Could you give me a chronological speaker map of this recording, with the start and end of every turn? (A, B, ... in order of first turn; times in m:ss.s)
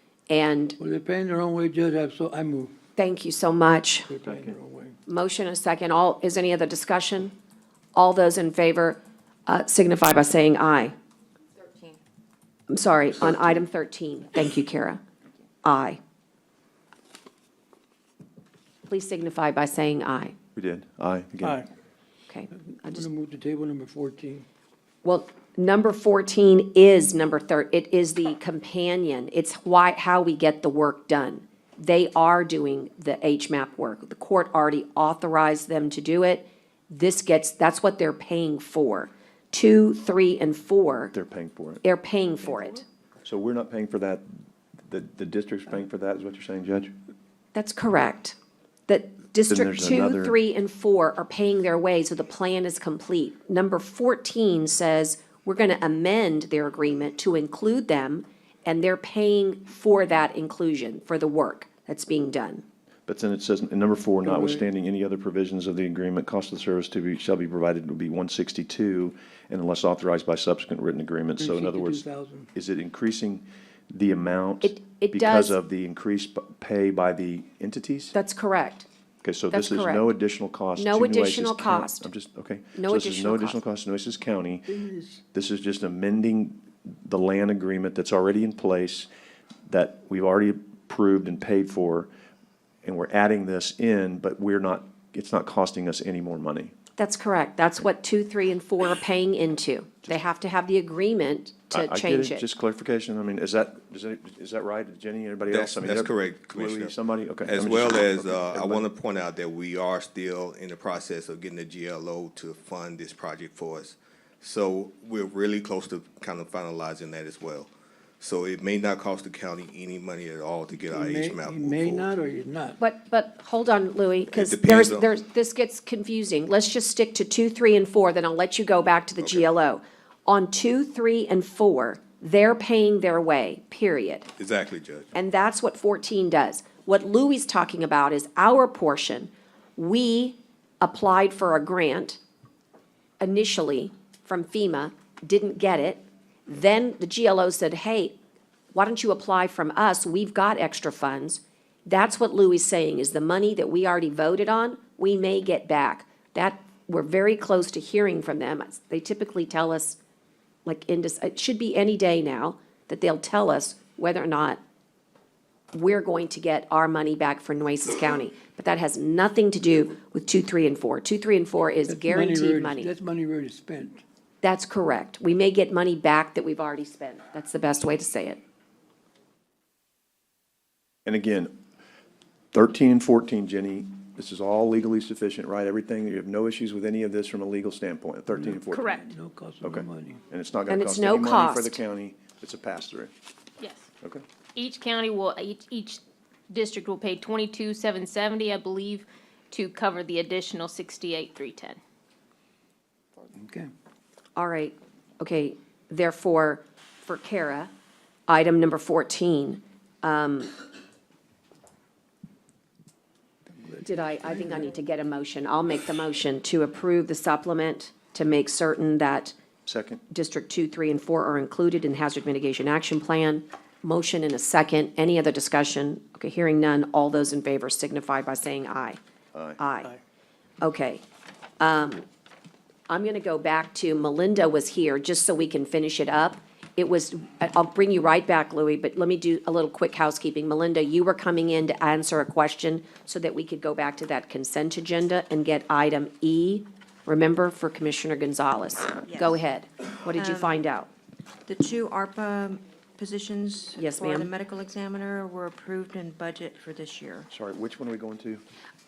0:00.3-0:00.8 A
0:00.8-0:02.7 B
0:03.0-0:04.1 A
0:04.1-0:05.0 B
0:05.0-0:07.3 A
0:07.9-0:10.9 A
0:12.7-0:15.0 A
0:15.6-0:16.0 A
0:18.9-0:20.4 A
0:20.5-0:21.6 C
0:22.3-0:23.0 A
0:22.8-0:24.4 B
0:25.0-0:41.1 A
0:41.1-0:41.8 C
0:41.8-0:42.8 A
0:43.2-0:44.3 C
0:44.9-0:46.9 C
0:47.5-0:48.4 A
0:48.9-1:02.6 A
0:49.5-0:50.4 C
1:03.1-1:12.0 C
1:04.2-1:04.6 B
1:11.4-1:12.5 B
1:12.5-1:18.1 C
1:14.6-1:15.6 A
1:18.1-1:18.9 A
1:19.2-1:24.7 C
1:19.5-1:20.1 A
1:20.8-1:22.1 A
1:22.7-1:23.6 A
1:24.7-1:25.2 B
1:25.3-1:29.1 C
1:29.7-1:32.1 C
1:32.8-1:36.7 C
1:37.0-1:42.4 A
1:41.7-1:48.9 C
1:45.5-2:02.1 D
2:00.7-2:02.8 B
2:02.8-2:14.3 A
2:04.3-2:05.1 D
2:09.2-2:09.5 D
2:14.4-2:15.1 D
2:15.1-2:22.2 A
2:23.2-2:28.2 A
2:28.7-2:40.0 A
2:40.6-2:44.6 A
2:45.7-2:52.9 A
2:51.9-2:54.0 B
2:54.4-2:58.4 A
3:01.0-3:01.5 C
3:02.5-3:13.1 C
3:08.3-3:10.2 B
3:10.7-3:11.8 A
3:13.6-3:13.8 E
3:14.6-3:21.8 E
3:23.3-3:23.7 B
3:24.4-3:27.7 A
3:28.3-3:30.6 A
3:33.6-3:34.7 B
3:33.8-3:39.4 A
3:39.6-3:40.0 C
3:40.1-3:49.0 A
3:49.3-3:49.6 C
3:49.6-3:50.0 A
3:50.6-3:51.0 A
3:51.6-3:52.0 A
3:52.9-4:10.9 A
4:09.1-4:09.4 F
4:10.1-4:10.6 F
4:11.4-4:17.3 F
4:13.8-4:14.3 A
4:17.3-4:18.4 C